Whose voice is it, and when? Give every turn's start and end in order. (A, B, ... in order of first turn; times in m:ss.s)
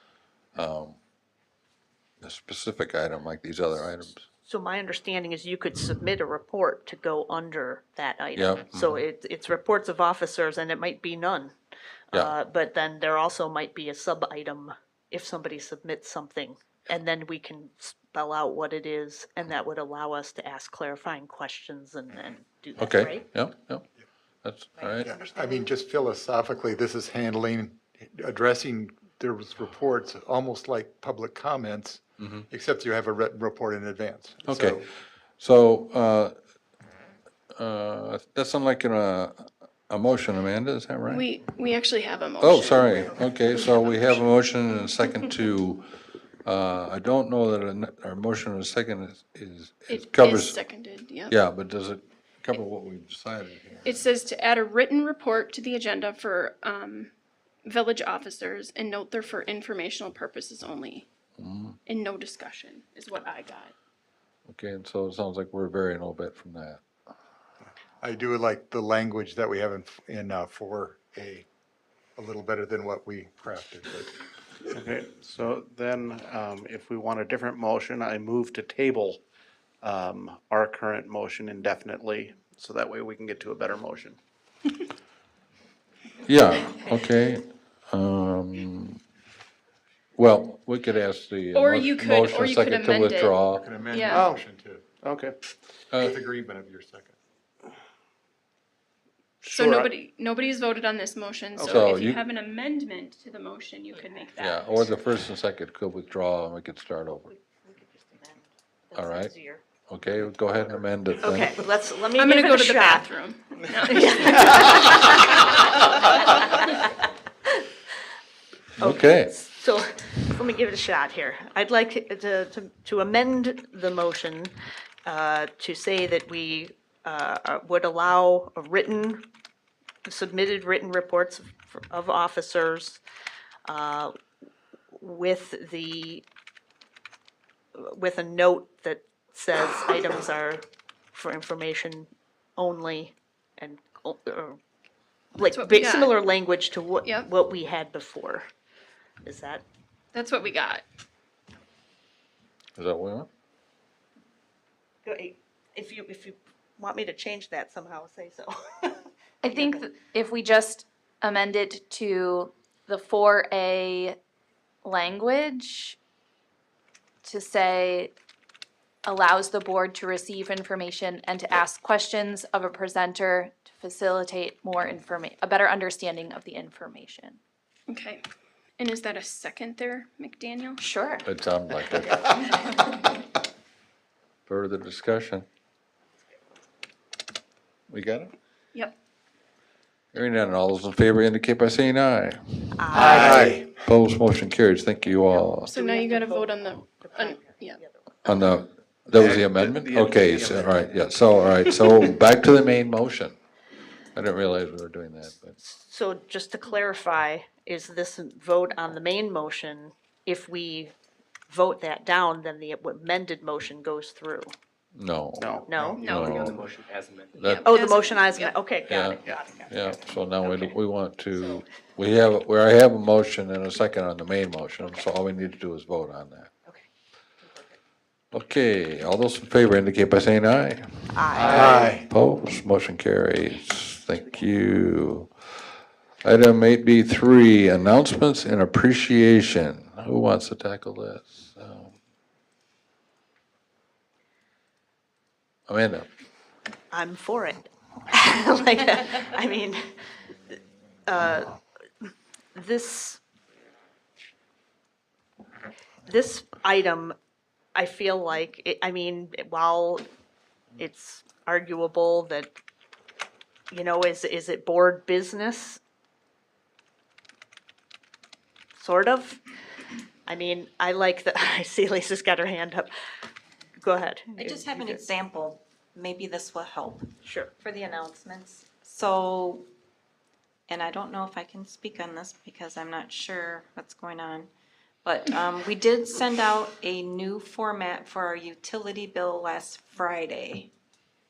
0:00.6-0:01.0 A
0:02.2-0:04.2 A
0:04.4-0:11.5 B
0:08.4-0:09.0 A
0:12.1-0:23.3 B
0:22.8-0:23.9 A
0:24.4-0:25.1 A
0:24.8-0:25.7 B
0:25.0-0:34.8 C
0:32.2-0:32.4 A
0:34.4-0:34.8 A
0:35.4-0:36.4 A
0:37.6-0:41.3 A
0:41.1-0:43.2 D
0:42.4-0:45.8 A
0:46.4-0:50.6 A
0:49.9-0:51.4 D
0:51.3-0:54.0 A
0:53.8-0:57.1 D
0:57.6-1:01.1 D
1:01.4-1:01.8 A
1:01.9-1:03.7 D
1:04.5-1:06.8 A
1:08.0-1:11.5 C
1:12.2-1:14.1 C
1:14.7-1:19.2 E
1:19.8-1:24.2 E
1:26.2-1:29.0 A
1:30.2-1:33.7 A
1:31.5-1:34.3 D
1:33.6-1:34.9 C
1:34.1-1:34.4 E
1:35.0-1:35.4 E
1:35.9-1:37.2 C
1:39.4-1:39.9 E
1:39.5-1:44.9 D
1:41.6-1:41.9 E
1:41.6-1:42.2 A
1:44.4-1:47.3 A
1:47.3-1:49.6 B
1:49.0-1:49.3 A
1:49.9-1:51.5 A
1:51.2-1:53.1 B
1:52.2-1:54.9 D
1:53.8-1:56.9 B
1:58.8-2:04.5 B
1:58.8-1:59.4 A
2:05.1-2:09.3 B
2:10.1-2:13.0 B
2:13.7-2:14.1 B
2:15.0-2:16.2 B
2:17.8-2:20.6 B
2:21.1-2:24.6 B
2:25.4-2:28.4 B
2:25.4-2:26.2 D
2:27.0-2:27.3 D
2:29.2-2:29.6 B
2:30.1-2:30.8 D
2:32.8-2:33.3 A
2:35.0-2:39.9 B
2:39.4-2:44.2 F
2:44.8-2:46.0 F
2:47.2-2:48.2 F
2:49.0-2:57.4 F
2:57.9-2:58.2 D
2:58.8-3:00.8 D
3:00.8-3:01.3 F
3:01.2-3:02.4 A
3:04.5-3:05.5 A
3:07.9-3:08.3 A
3:10.1-3:15.7 A
3:12.8-3:13.6 B
3:12.9-3:13.7 C
3:15.3-3:18.4 B
3:15.6-3:17.8 D
3:18.2-3:23.4 A
3:19.2-3:20.9 G
3:24.2-3:25.6 A
3:25.6-3:30.9 B
3:31.5-3:34.5 B
3:35.0-3:36.7 A
3:35.4-3:35.9 E
3:35.7-3:36.0 B
3:36.0-3:37.4 G
3:36.0-3:36.5 D
3:37.3-3:37.7 A
3:37.4-3:38.6 D
3:37.6-3:40.8 B
3:38.9-3:46.5 A
3:47.4-3:47.7 B
3:48.3-3:55.3 A
3:51.1-3:51.9 B
3:51.4-3:52.1 C
3:56.2-4:02.0 A
4:05.7-4:06.1 A
4:06.9-4:09.8 B
4:10.5-4:11.6 B
4:12.6-4:13.2 B
4:16.1-4:17.2 B
4:17.8-4:20.0 B
4:20.8-4:22.5 B
4:23.7-4:25.8 B
4:28.8-4:29.4 B
4:30.3-4:32.9 B
4:33.8-4:35.1 B
4:34.4-4:39.7 H
4:37.2-4:37.5 B
4:40.7-4:44.5 H
4:45.0-4:50.7 H